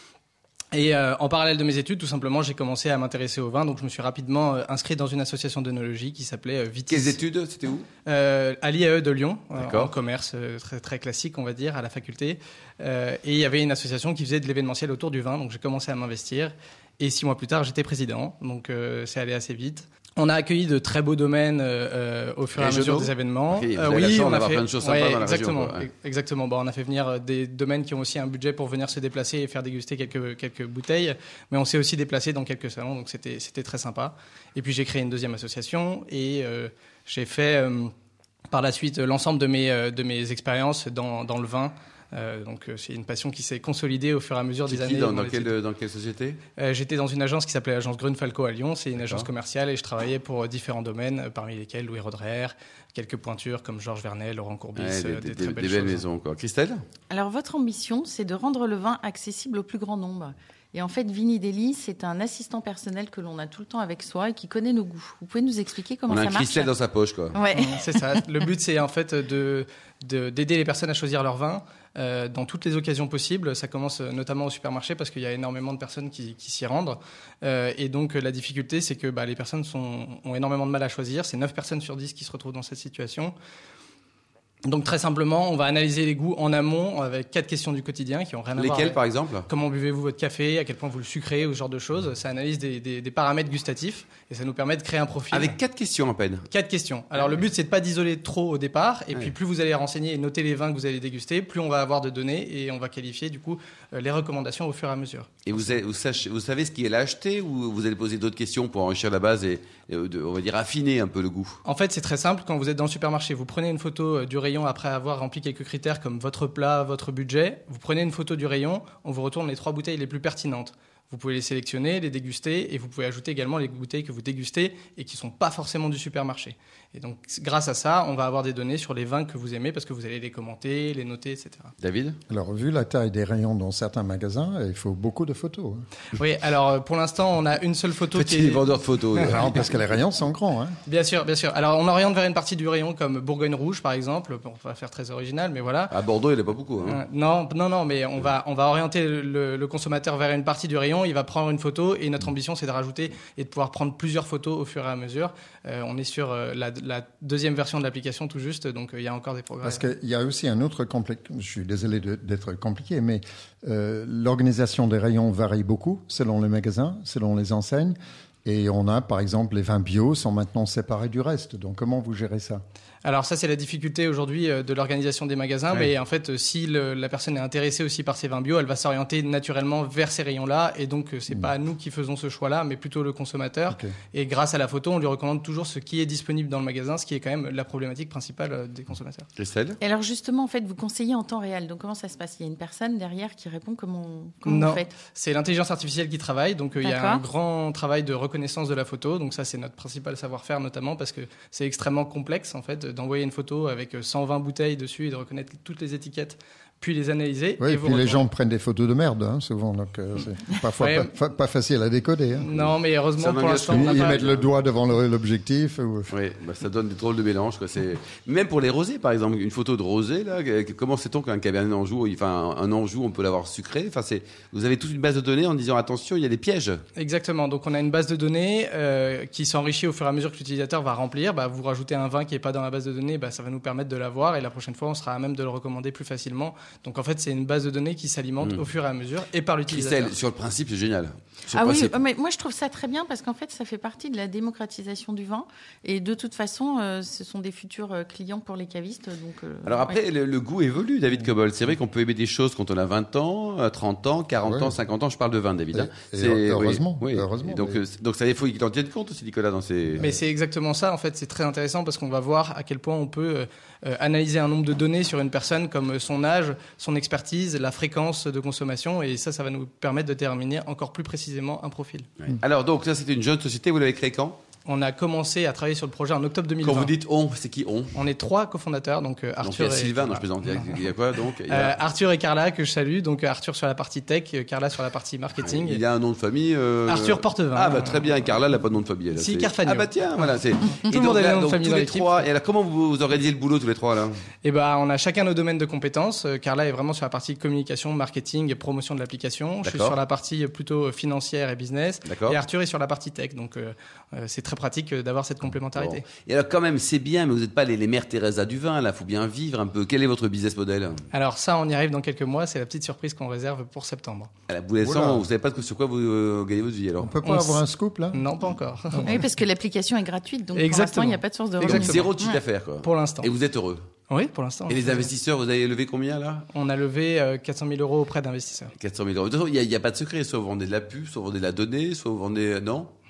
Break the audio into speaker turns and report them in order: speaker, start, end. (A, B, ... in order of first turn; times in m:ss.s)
0:00.7-0:07.2 A
0:06.9-0:07.9 B
0:08.0-0:37.9 A
0:09.6-0:09.9 B
0:22.6-0:25.9 B
0:38.5-0:45.5 A
0:44.7-0:46.4 B
0:46.6-0:56.0 A
0:49.0-0:49.3 B
0:54.8-0:56.8 B
0:57.1-1:06.7 C
1:06.1-1:07.4 B
1:07.3-1:08.2 C
1:07.5-1:23.3 A
1:24.6-1:35.6 A
1:28.6-1:29.5 B
1:35.3-1:36.5 B
1:36.5-1:45.3 A
1:45.4-1:51.6 B
1:51.6-2:11.7 A
2:11.8-2:12.2 B
2:12.3-2:15.8 D
2:16.2-2:19.4 A
2:18.1-2:19.7 B
2:19.3-2:20.8 D
2:20.8-2:25.9 A
2:25.9-2:27.0 B
2:26.8-2:39.8 A
2:39.6-2:52.6 D
2:53.0-3:09.3 A
3:09.4-3:09.8 B
3:09.8-3:14.9 C
3:14.4-3:28.2 A
3:16.8-3:17.2 C
3:27.6-3:32.6 D
3:30.8-3:31.1 A
3:32.4-3:34.2 A
3:33.2-3:34.5 B
3:33.7-3:36.1 D
3:36.1-3:46.8 B
3:47.0-4:00.1 A
3:59.7-4:02.0 B
4:01.5-4:10.0 C
4:09.6-4:20.1 B
4:14.4-4:14.7 D
4:15.7-4:17.8 D
4:20.0-4:32.1 A
4:32.2-4:34.4 B
4:34.6-4:36.9 A
4:36.6-4:37.9 B
4:37.9-4:40.8 A
4:39.4-4:41.7 B
4:41.5-4:45.8 A
4:45.4-4:54.2 B
4:46.9-4:48.1 A
4:49.1-4:52.3 A
4:54.4-5:06.0 A
4:59.6-5:00.0 B
5:02.0-5:02.4 B
5:05.7-5:11.0 B
5:11.1-5:14.3 A
5:14.5-5:17.2 B
5:14.8-5:15.3 D
5:17.0-5:18.3 D
5:17.2-5:17.6 A
5:18.1-5:19.2 A
5:19.0-5:22.4 C
5:20.5-5:22.2 A
5:21.6-5:23.8 B
5:22.8-5:23.3 A
5:24.1-5:25.1 A
5:24.7-5:26.5 B
5:26.5-5:28.7 A
5:28.8-5:32.9 B